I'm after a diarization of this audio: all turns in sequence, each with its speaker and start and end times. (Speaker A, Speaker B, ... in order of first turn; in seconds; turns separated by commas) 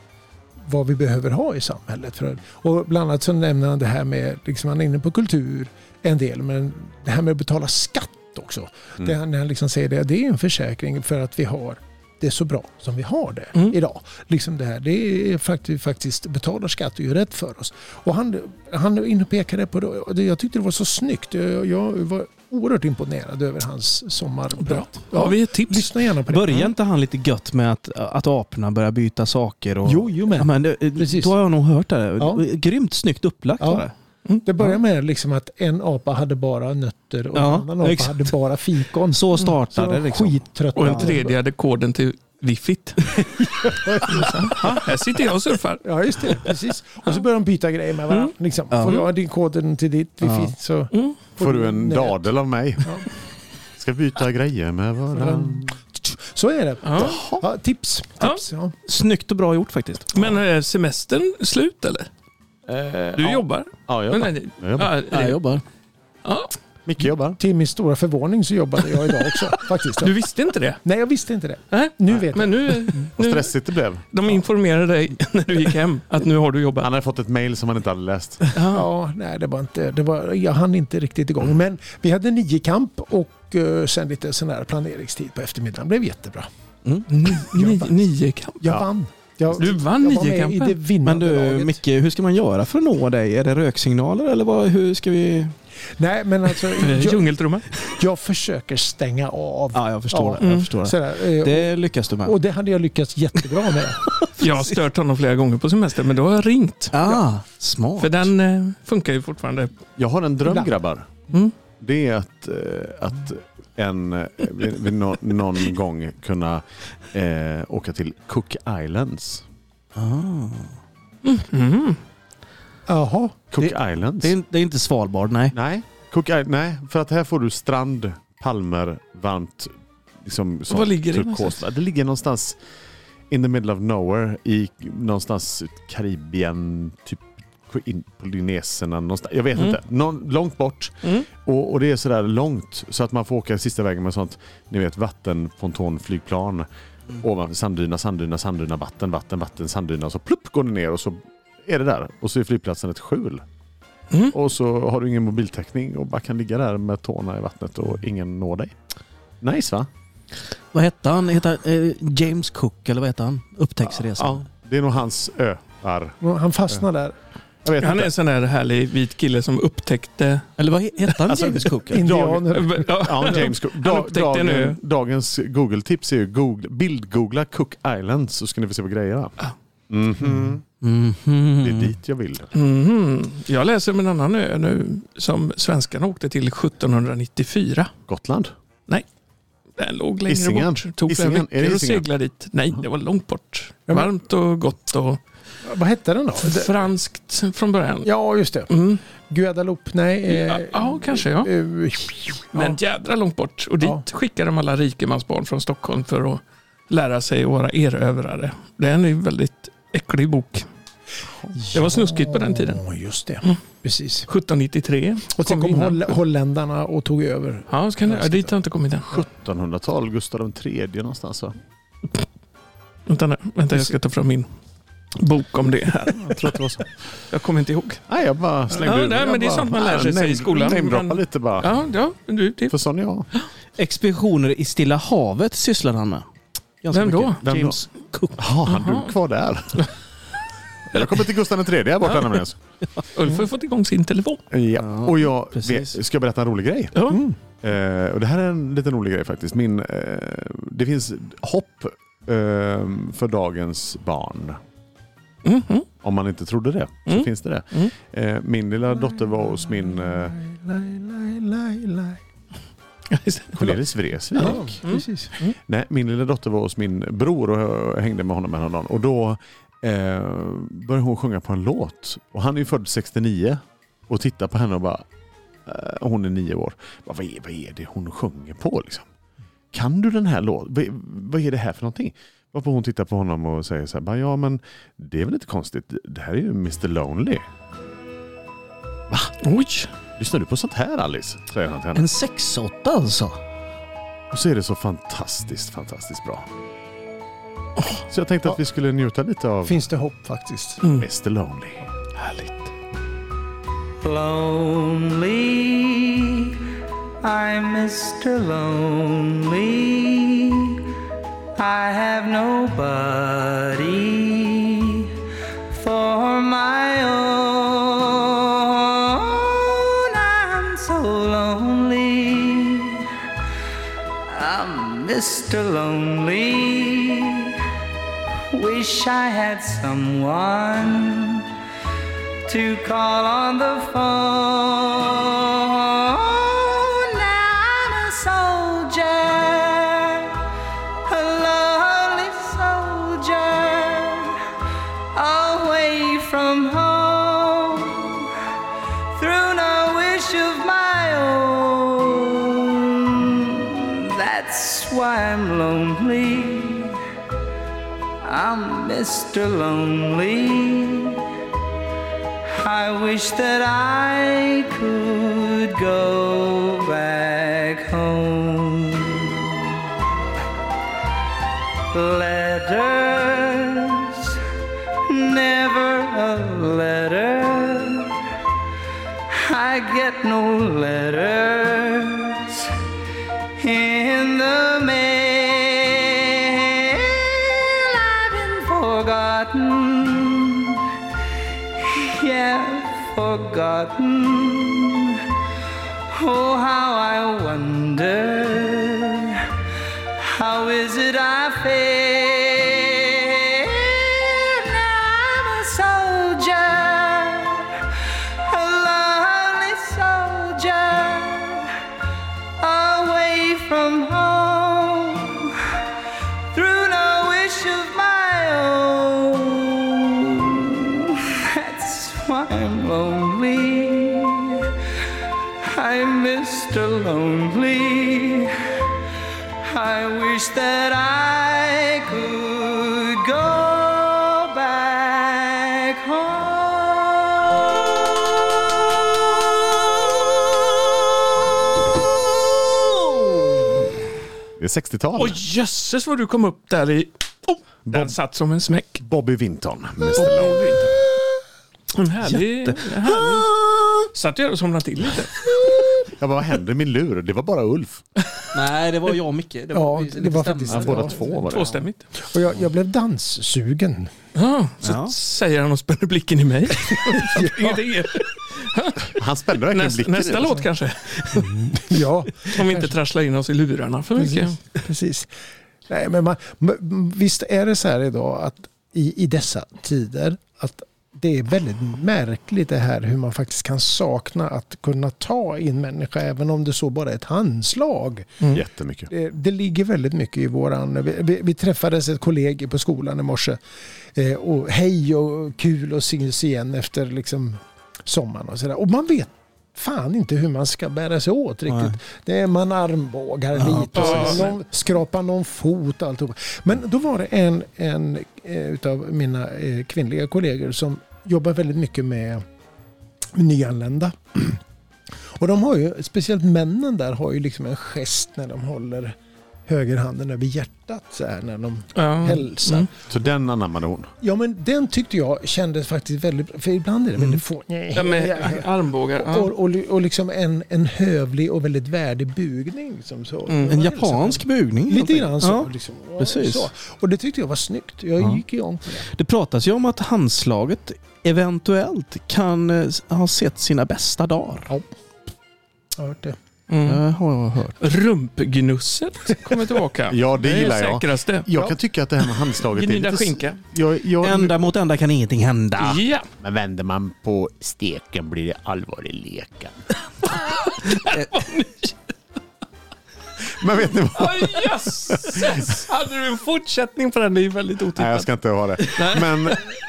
Speaker A: 0.6-26.7, Speaker B: 24.6-25.9, Speaker C: 26.3-33.9, Speaker A: 29.9-31.3, Speaker A: 32.2-32.4, Speaker A: 33.6-33.9, Speaker A: 34.5-41.4, Speaker C: 37.4-38.3, Speaker C: 39.1-41.2, Speaker B: 40.8-43.3, Speaker A: 43.4-44.8, Speaker B: 44.1-46.5, Speaker A: 45.8-52.3, Speaker C: 48.7-49.0, Speaker C: 50.2-50.5, Speaker B: 50.9-51.2, Speaker D: 51.4-53.0, Speaker D: 53.8-55.8, Speaker A: 55.1-58.8, Speaker B: 56.9-57.2, Speaker D: 57.0-57.4, Speaker C: 58.9-60.3, Speaker B: 60.1-62.1, Speaker D: 62.7-65.2, Speaker B: 63.2-65.4, Speaker C: 65.1-65.6, Speaker B: 66.2-66.5, Speaker D: 66.9-67.4, Speaker A: 67.4-70.2, Speaker B: 70.0-70.8, Speaker A: 70.8-73.0, Speaker B: 71.7-73.5, Speaker D: 73.2-74.0, Speaker B: 74.1-76.9, Speaker D: 76.8-78.5, Speaker B: 78.5-78.9, Speaker A: 78.6-86.5, Speaker B: 87.1-88.7, Speaker A: 87.4-88.0, Speaker A: 88.6-91.8, Speaker B: 89.5-90.8, Speaker C: 91.0-95.5, Speaker A: 96.0-104.2, Speaker B: 96.8-97.7, Speaker C: 99.7-102.4, Speaker B: 100.4-100.7, Speaker B: 104.4-107.2, Speaker C: 106.9-108.3, Speaker B: 108.0-109.7, Speaker D: 110.0-111.2, Speaker D: 111.8-119.5, Speaker C: 120.0-120.8, Speaker B: 121.2-122.0, Speaker A: 122.9-123.4, Speaker D: 123.5-124.3, Speaker C: 123.6-125.5, Speaker D: 125.5-132.6, Speaker B: 130.7-131.6, Speaker D: 133.3-153.4, Speaker B: 154.1-154.3, Speaker D: 154.3-158.8, Speaker D: 159.4-159.9, Speaker C: 160.7-164.4, Speaker D: 164.1-166.2, Speaker A: 166.2-167.1, Speaker D: 167.6-168.1, Speaker B: 167.8-170.5, Speaker C: 170.6-172.1, Speaker D: 171.3-179.4, Speaker A: 171.8-172.9, Speaker B: 172.5-174.8, Speaker D: 179.9-180.6, Speaker C: 180.8-181.9, Speaker D: 181.6-182.5, Speaker B: 182.5-187.9, Speaker D: 188.1-188.5, Speaker B: 189.8-195.2, Speaker D: 190.3-192.1, Speaker A: 195.6-196.8, Speaker B: 196.4-198.1, Speaker A: 198.0-198.7, Speaker B: 198.7-199.0, Speaker A: 199.3-202.8, Speaker B: 200.3-201.5, Speaker B: 202.5-210.7, Speaker A: 211.6-214.3, Speaker B: 211.7-212.8, Speaker B: 214.3-216.1, Speaker A: 215.3-218.5, Speaker B: 217.7-219.1, Speaker D: 219.1-221.6, Speaker B: 223.1-224.5, Speaker B: 225.2-226.4, Speaker D: 226.2-226.9, Speaker B: 227.3-228.0, Speaker D: 228.1-231.8, Speaker B: 228.8-232.8, Speaker D: 232.7-233.3, Speaker C: 233.8-236.3, Speaker C: 236.8-238.4, Speaker B: 236.9-237.4, Speaker D: 237.4-237.8, Speaker D: 238.4-239.9, Speaker B: 238.7-239.1, Speaker D: 240.9-242.6, Speaker B: 243.1-244.4, Speaker D: 244.5-247.0, Speaker C: 244.8-246.0, Speaker B: 246.9-247.2, Speaker A: 247.1-247.4, Speaker D: 247.6-254.6, Speaker B: 255.4-255.9, Speaker D: 256.0-260.3, Speaker B: 257.1-257.9, Speaker A: 259.9-262.2, Speaker B: 263.1-263.8, Speaker D: 263.5-264.8, Speaker A: 264.4-265.3, Speaker B: 264.4-265.6, Speaker D: 265.7-275.1, Speaker D: 275.7-279.1, Speaker D: 279.7-287.4, Speaker B: 289.4-289.9, Speaker D: 290.2-292.1, Speaker C: 291.9-293.4, Speaker D: 294.3-296.5, Speaker D: 298.1-299.8, Speaker A: 299.7-300.8, Speaker D: 300.9-301.8, Speaker B: 302.2-302.7, Speaker E: 304.0-306.6, Speaker E: 307.2-310.8, Speaker E: 311.6-315.1, Speaker E: 315.7-323.1, Speaker E: 324.3-327.6, Speaker E: 328.5-331.5, Speaker E: 332.5-340.4, Speaker E: 341.1-344.4, Speaker E: 345.1-348.3, Speaker E: 349.1-357.0, Speaker E: 358.2-361.2, Speaker E: 362.5-369.8, Speaker E: 371.9-374.4, Speaker E: 375.1-378.2, Speaker E: 379.3-382.7, Speaker E: 383.6-390.9, Speaker E: 391.8-395.3, Speaker E: 396.1-399.5, Speaker E: 400.2-407.9, Speaker E: 408.4-411.7, Speaker E: 412.6-415.7, Speaker E: 416.5-424.7, Speaker E: 425.6-428.5, Speaker E: 429.6-437.7, Speaker D: 444.6-445.4, Speaker B: 445.2-449.0, Speaker D: 447.9-448.1, Speaker D: 449.0-450.7, Speaker B: 450.2-450.9, Speaker B: 451.9-453.5, Speaker C: 452.3-454.1, Speaker B: 454.1-455.5, Speaker D: 456.1-458.0, Speaker C: 458.5-461.1, Speaker A: 459.7-461.4, Speaker D: 460.7-461.9, Speaker B: 461.5-462.1, Speaker A: 462.2-464.1, Speaker B: 464.4-471.6, Speaker C: 464.8-465.1, Speaker A: 466.8-467.8, Speaker D: 469.1-470.6, Speaker A: 471.3-472.9, Speaker B: 472.4-474.6, Speaker A: 474.2-475.3, Speaker A: 475.9-488.6, Speaker D: 488.5-489.1, Speaker A: 489.1-493.6, Speaker A: 494.1-512.4, Speaker C: 501.7-502.0, Speaker C: 503.6-504.4, Speaker B: 503.9-504.6, Speaker A: 513.3-514.6, Speaker A: 515.4-519.2, Speaker A: 519.7-522.9, Speaker B: 522.0-522.9, Speaker D: 523.1-524.1, Speaker A: 524.2-539.1, Speaker B: 527.9-529.5, Speaker B: 533.5-533.8, Speaker C: 533.7-536.7, Speaker C: 539.0-544.7, Speaker A: 546.0-546.4, Speaker B: 546.7-547.0, Speaker C: 546.8-547.8, Speaker B: 547.8-551.5, Speaker D: 550.1-554.7, Speaker B: 552.6-553.6, Speaker C: 554.2-556.0, Speaker B: 555.8-556.3, Speaker D: 556.4-559.8, Speaker B: 560.4-562.1, Speaker C: 561.0-561.3, Speaker D: 563.6-565.8, Speaker B: 564.1-568.3, Speaker D: 568.0-569.6, Speaker B: 568.9-569.7